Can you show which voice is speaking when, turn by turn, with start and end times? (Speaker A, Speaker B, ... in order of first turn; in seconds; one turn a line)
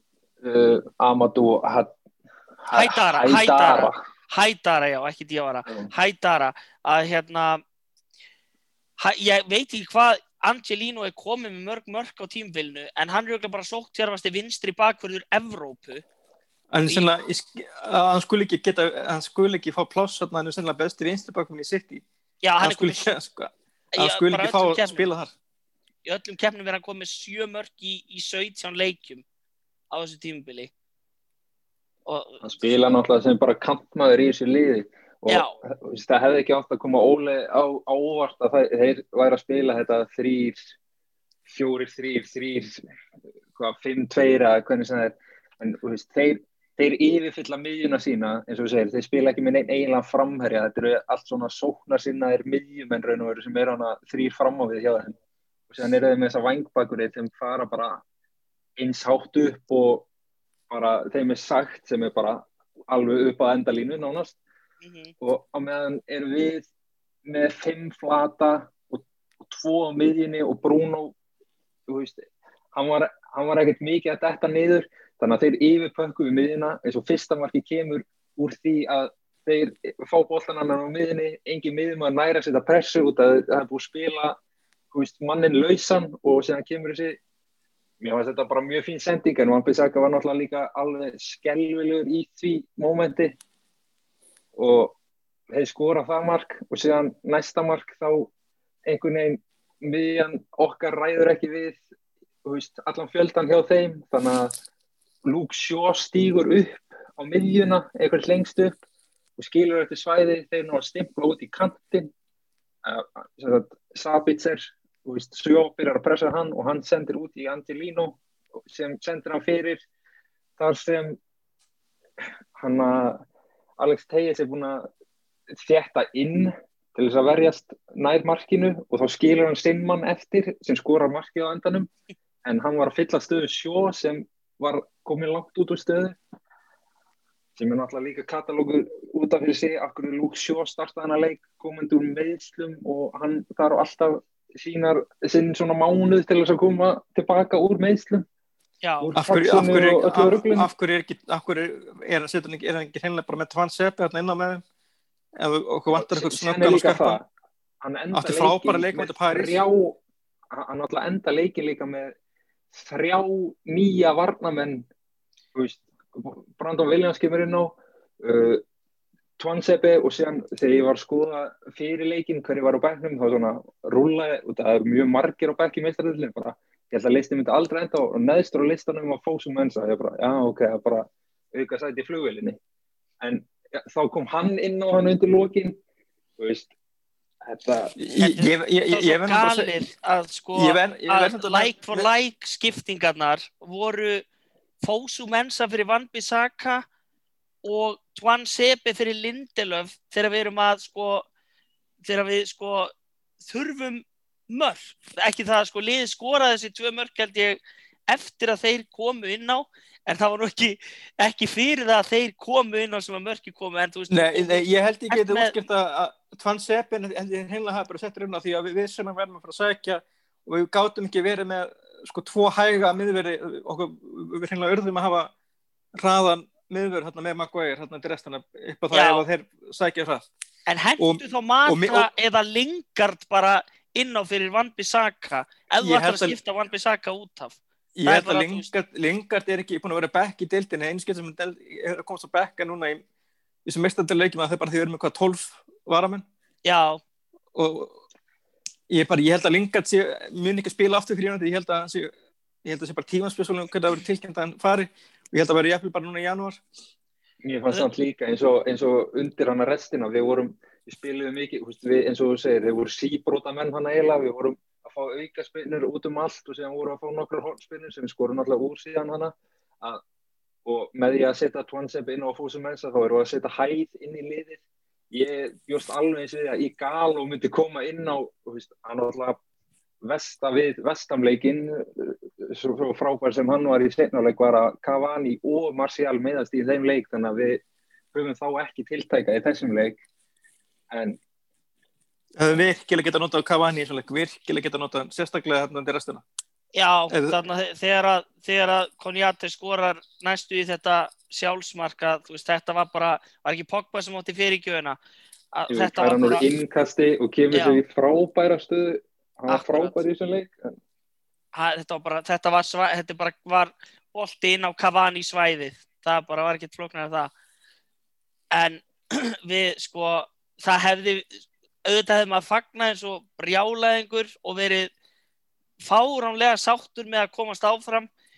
Speaker A: 0.4-1.9
Speaker A: 2.6-4.0
Speaker B: 2.7-7.6
Speaker B: 9.0-16.0
Speaker C: 16.7-22.0
Speaker B: 22.4-23.1
Speaker C: 22.6-25.3
Speaker B: 23.9-25.0
Speaker B: 26.1-29.2
Speaker B: 29.9-30.7
Speaker B: 32.1-32.5
Speaker A: 32.4-40.7
Speaker A: 41.5-42.9
Speaker A: 43.6-55.1
Speaker A: 55.7-58.0
Speaker A: 58.8-60.1
Speaker A: 60.7-64.4
Speaker B: 64.8-65.1
Speaker A: 65.2-66.7
Speaker A: 67.3-71.1
Speaker A: 71.9-84.4
Speaker A: 84.9-87.2
Speaker A: 88.0-93.4
Speaker A: 94.6-95.0
Speaker A: 95.5-98.3
Speaker A: 98.9-101.8
Speaker A: 102.5-104.5
Speaker A: 105.2-108.8
Speaker A: 109.4-112.1
Speaker A: 112.8-119.8
Speaker A: 120.6-121.2
Speaker A: 122.6-123.2
Speaker A: 123.8-124.9
Speaker A: 125.6-131.9
Speaker A: 132.4-136.2
Speaker A: 137.6-148.2
Speaker B: 148.8-149.1
Speaker A: 149.0-150.7
Speaker C: 149.2-154.6
Speaker C: 155.4-157.2
Speaker A: 155.9-157.3
Speaker A: 157.8-160.0
Speaker C: 158.1-159.6
Speaker A: 160.5-162.1
Speaker A: 162.7-164.8
Speaker A: 165.6-168.6
Speaker A: 169.4-182.6
Speaker A: 183.2-185.8
Speaker A: 186.4-186.7
Speaker A: 187.5-188.0
Speaker C: 188.0-189.8
Speaker B: 188.2-194.2
Speaker C: 190.6-192.1
Speaker B: 194.8-196.8
Speaker B: 197.6-201.3
Speaker B: 202.0-215.6
Speaker C: 214.1-225.3
Speaker C: 226.0-230.3
Speaker B: 228.9-229.2
Speaker B: 230.7-238.7
Speaker C: 231.0-232.1
Speaker C: 235.8-236.4
Speaker C: 238.0-243.0
Speaker C: 243.7-246.3
Speaker B: 246.7-247.0
Speaker C: 247.6-248.0
Speaker C: 248.9-252.1
Speaker C: 252.6-256.6
Speaker A: 257.4-270.0
Speaker A: 270.7-274.6
Speaker A: 275.1-279.4
Speaker A: 280.0-287.6
Speaker A: 288.1-290.0
Speaker A: 290.9-291.2
Speaker C: 292.4-296.2
Speaker B: 296.8-305.0
Speaker C: 297.1-297.4
Speaker B: 305.5-306.5
Speaker A: 305.7-310.6
Speaker B: 307.5-307.8
Speaker B: 309.5-309.9
Speaker B: 311.5-317.3
Speaker B: 318.5-324.9
Speaker B: 325.8-328.1